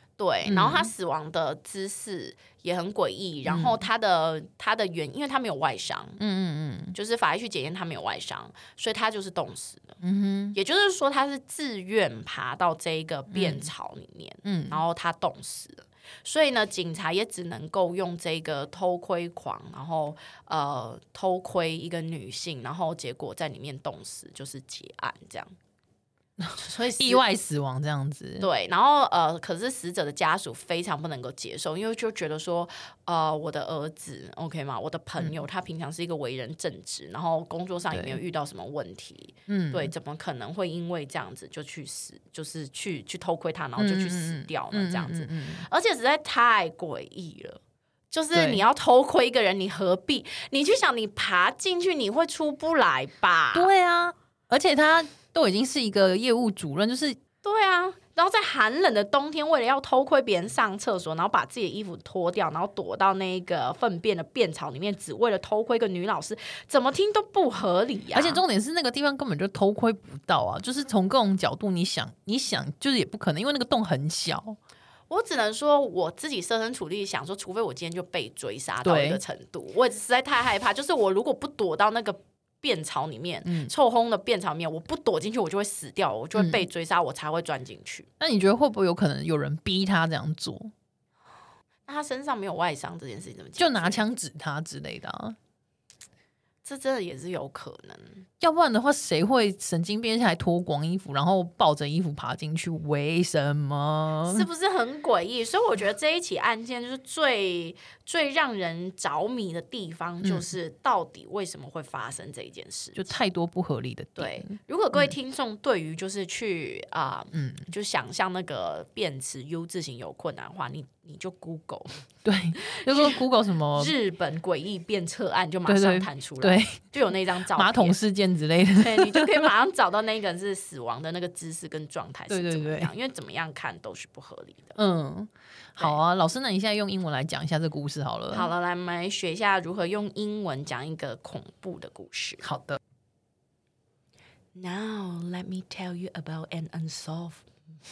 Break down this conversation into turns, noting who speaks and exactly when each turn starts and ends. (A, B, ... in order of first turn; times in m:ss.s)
0:00.2-0:06.2 A
0:00.4-0:00.9 B
0:03.5-0:03.8 B
0:06.2-0:07.0 B
0:06.9-0:10.0 A
0:10.0-0:10.6 B
0:10.5-0:25.5 A
0:13.3-0:13.7 B
0:14.4-0:14.8 B
0:26.4-0:28.5 B
0:26.6-0:27.2 A
0:28.4-0:53.7 A
0:37.9-0:38.2 B
0:39.5-0:39.9 B
0:43.8-0:45.6 B
0:48.3-0:48.6 B
0:53.5-0:57.2 B
0:57.4-1:08.4 A
1:08.1-1:14.6 B
1:15.1-1:28.1 A
1:18.8-1:19.2 B
1:23.4-1:23.7 B
1:26.3-1:26.6 B
1:28.2-1:30.7 B
1:31.9-1:34.0 A
1:33.6-1:35.4 B
1:36.6-1:38.2 A
1:38.4-1:44.4 B
1:44.2-1:53.2 A
1:50.2-1:50.5 B
1:52.9-1:55.1 B
1:54.2-2:02.0 A
1:57.3-1:57.7 B
2:02.2-2:03.9 B
2:02.6-2:03.2 A
2:03.7-2:08.0 A
2:05.6-2:06.9 B
2:07.5-2:09.5 B
2:08.8-2:14.8 A
2:12.3-2:12.9 B
2:14.8-2:18.5 B
2:18.3-2:22.5 A
2:22.4-2:22.8 B
2:24.5-2:27.5 A